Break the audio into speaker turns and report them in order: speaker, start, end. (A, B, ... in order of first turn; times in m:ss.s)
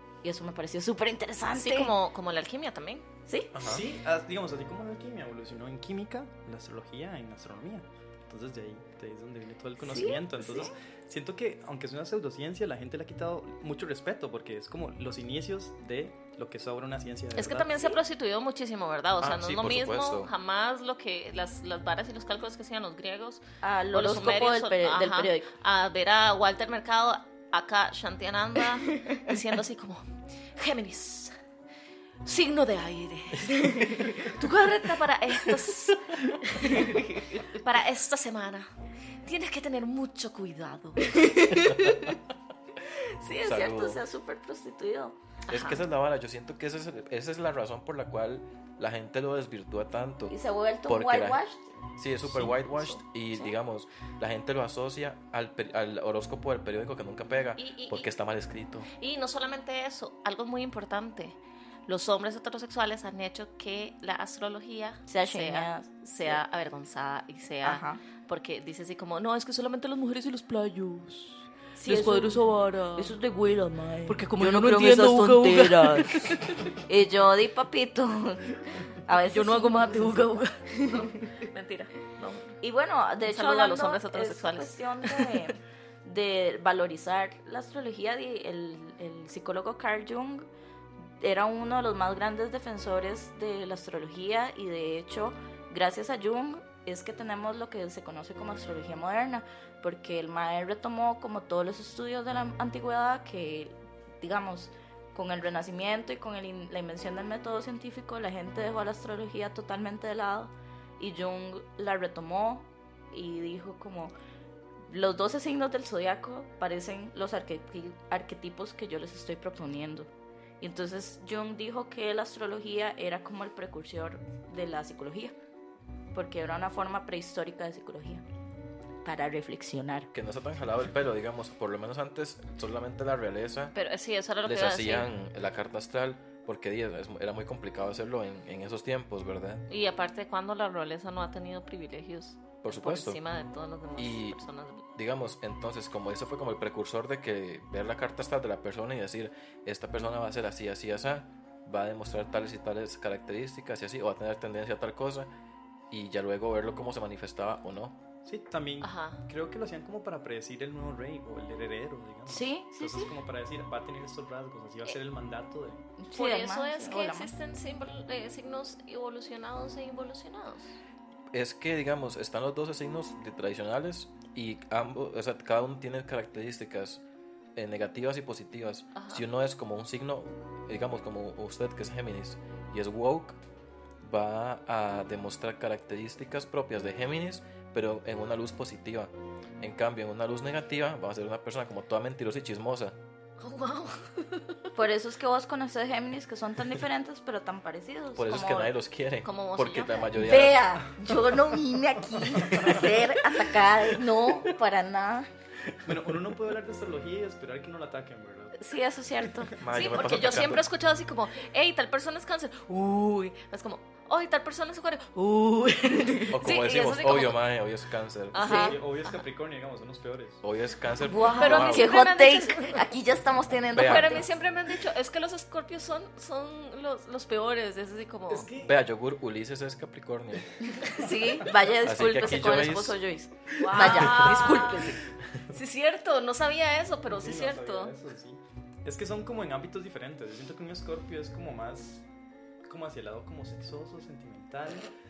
0:00.2-0:01.9 A
0:01.5-0:03.0 B
0:03.3-0:03.6 A
0:03.5-0:03.8 C
0:03.6-0:17.8 D
0:09.8-0:10.8 A
0:17.4-0:31.4 B
0:19.2-0:20.3 C
0:23.6-0:25.5 A
0:28.9-0:29.2 A
0:32.2-0:38.7 B
0:33.5-0:34.2 A
0:36.7-0:37.4 A
0:39.2-0:41.2 B
0:41.0-0:42.2 A
0:41.6-0:42.0 C
0:42.8-0:45.2 A
0:43.4-0:44.0 C
0:45.5-0:45.8 B
0:45.5-0:50.4 C
0:50.3-0:51.7 A
0:50.9-0:51.4 C
0:52.0-0:58.9 C
0:57.6-0:58.1 B
0:58.9-1:13.2 B
1:05.1-1:06.4 A
1:07.6-1:08.0 A
1:11.8-1:21.3 A
1:14.1-1:16.8 B
1:19.3-1:22.6 B
1:22.6-1:30.5 A
1:23.2-1:25.5 B
1:31.1-1:54.1 A
1:54.9-2:00.1 A
2:00.6-2:05.4 A
2:06.1-2:08.2 A
2:09.0-2:10.1 A
2:10.1-2:13.7 C
2:13.8-2:15.1 B
2:14.4-2:19.6 C
2:19.7-2:24.8 B
2:22.6-2:23.2 C
2:24.0-2:35.3 C
2:35.9-2:38.0 C
2:38.2-2:45.8 D
2:38.8-2:39.2 B
2:42.3-2:43.1 A
2:46.0-2:47.3 A
2:46.1-2:50.8 B
2:51.3-2:57.0 C
2:57.6-3:03.4 C
2:59.0-2:59.2 B
3:04.0-3:13.0 C
3:13.4-3:14.6 B
3:14.8-3:18.7 A
3:18.2-3:20.8 C
3:19.2-3:20.1 B
3:20.2-3:25.3 A
3:25.8-3:28.6 D
3:28.6-3:29.5 A
3:29.6-3:30.7 C
3:29.7-3:37.4 B
3:36.3-3:38.7 C
3:38.3-3:39.2 B
3:38.4-3:38.8 A
3:38.4-3:40.4 D
3:40.4-3:41.9 C
3:41.0-3:44.3 A
3:41.3-3:42.9 B
3:43.7-3:44.2 C
3:43.8-3:48.5 B
3:48.3-3:48.8 D
3:48.6-3:50.5 C
3:50.7-3:55.0 A
3:51.8-3:53.0 C
3:53.6-3:58.0 B
3:53.9-3:54.5 C
3:57.1-4:02.0 D
4:02.6-4:04.9 D